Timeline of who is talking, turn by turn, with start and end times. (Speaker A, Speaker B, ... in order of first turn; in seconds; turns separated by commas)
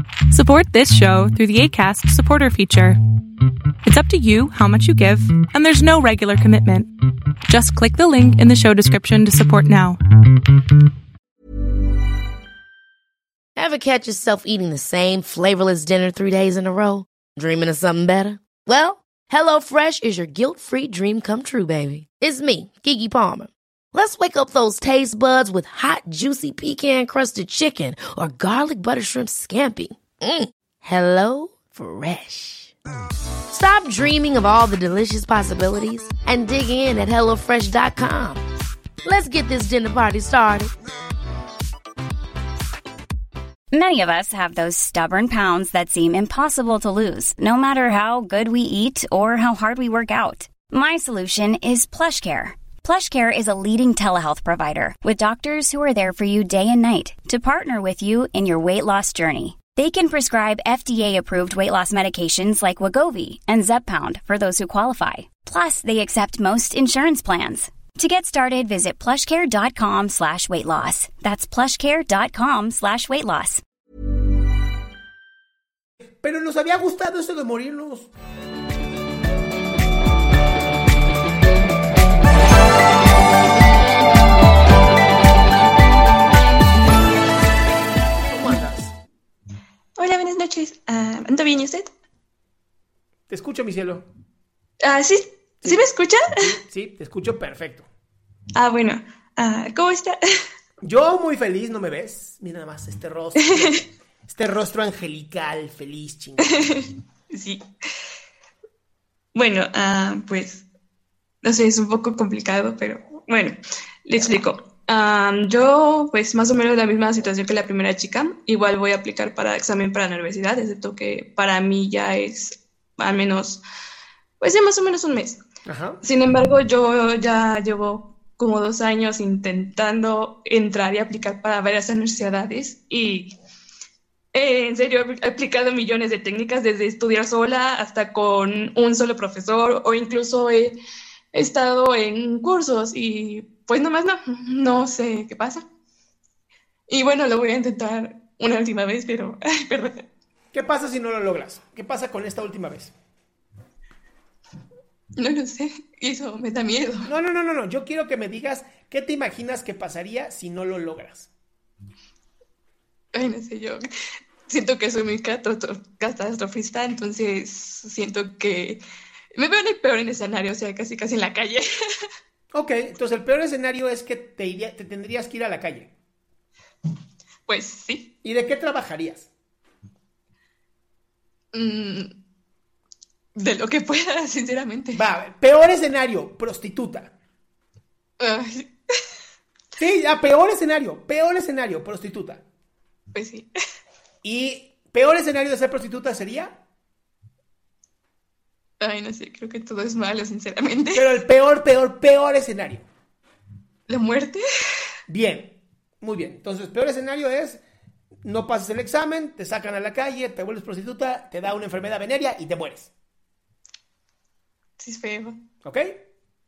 Speaker A: 0.3-3.0, Speaker A: 3.8-6.9, Speaker A: 7.5-10.0, Speaker B: 13.6-32.7, Speaker B: 33.5-38.4, Speaker B: 39.0-40.7, Speaker C: 43.7-73.6, Speaker D: 76.2-78.1, Speaker D: 88.2-88.9, Speaker E: 90.0-91.9, Speaker D: 93.3-94.1, Speaker E: 94.8-96.3, Speaker D: 96.4-97.9, Speaker E: 98.5-100.2, Speaker D: 100.8-106.8, Speaker E: 106.6-107.6, Speaker E: 109.3-110.6, Speaker E: 111.4-123.6, Speaker E: 124.4-125.4, Speaker D: 125.7-126.0, Speaker E: 126.0-133.3, Speaker E: 134.3-140.7, Speaker E: 141.3-145.6, Speaker E: 146.9-150.0, Speaker D: 150.5-152.9, Speaker E: 155.2-157.1, Speaker D: 157.0-161.3, Speaker E: 163.1-163.9, Speaker E: 164.5-168.8, Speaker E: 169.3-171.7, Speaker D: 172.5-175.9, Speaker E: 177.5-178.1, Speaker D: 178.2-179.3, Speaker E: 181.5-182.1, Speaker E: 183.3-185.0, Speaker D: 184.9-187.1, Speaker E: 188.2-188.7, Speaker D: 189.8-192.4, Speaker E: 193.1-193.5, Speaker D: 194.2-196.6, Speaker E: 198.8-201.1, Speaker D: 200.9-202.9, Speaker E: 203.9-204.4, Speaker D: 205.1-207.6, Speaker D: 208.2-212.9, Speaker E: 214.8-215.4, Speaker D: 215.6-215.9